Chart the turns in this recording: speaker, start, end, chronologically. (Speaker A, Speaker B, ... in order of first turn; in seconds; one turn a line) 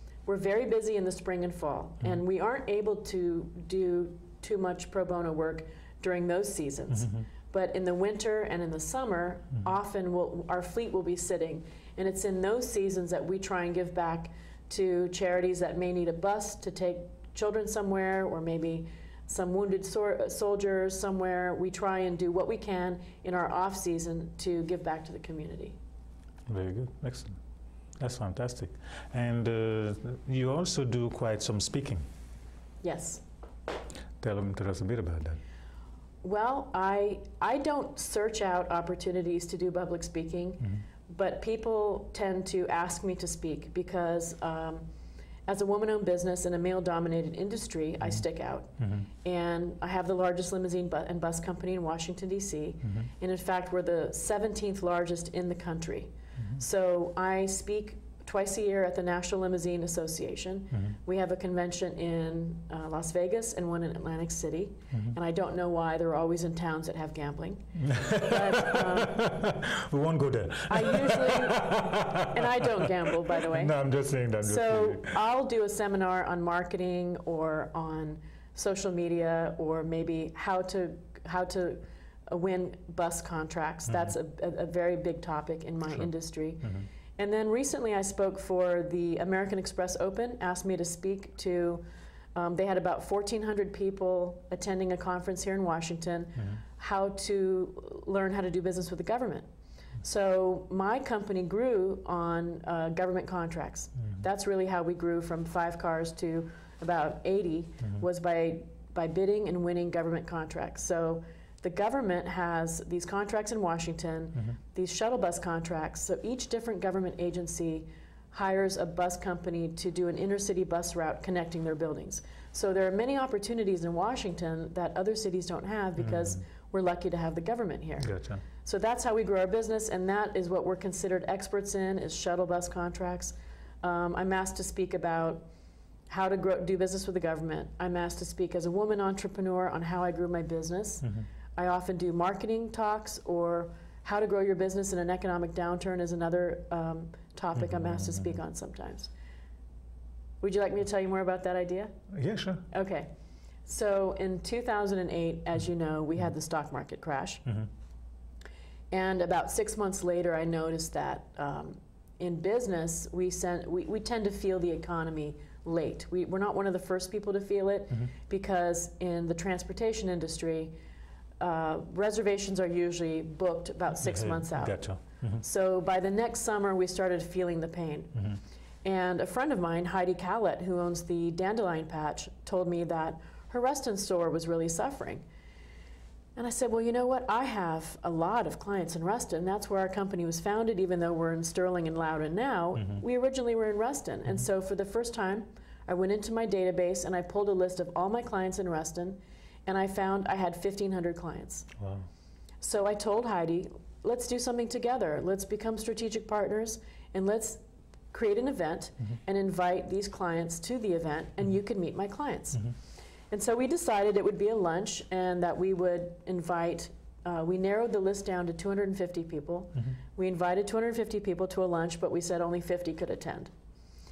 Speaker A: 0.3-25.8
Speaker B: 26.5-27.4
Speaker B: 28.0-32.0
Speaker A: 32.8-33.2
Speaker B: 34.2-35.4
Speaker A: 36.2-44.9
Speaker A: 45.5-69.4
Speaker B: 48.8-49.1
Speaker B: 67.8-75.2
Speaker A: 70.7-73.8
Speaker A: 74.4-91.8
Speaker B: 83.9-84.1
Speaker A: 92.3-99.5
Speaker A: 100.0-135.4
Speaker B: 126.0-126.4
Speaker B: 128.0-128.4
Speaker A: 136.1-149.1
Speaker B: 147.6-148.3
Speaker A: 150.4-151.9
Speaker B: 152.1-152.7
Speaker A: 152.7-153.1
Speaker A: 153.7-157.4
Speaker A: 158.9-170.8
Speaker A: 171.4-174.8
Speaker B: 174.0-175.4
Speaker A: 175.4-178.2
Speaker A: 178.8-185.2
Speaker A: 186.4-201.7
Speaker B: 201.8-202.1
Speaker A: 202.6-207.6
Speaker A: 208.1-212.7
Speaker A: 213.3-223.5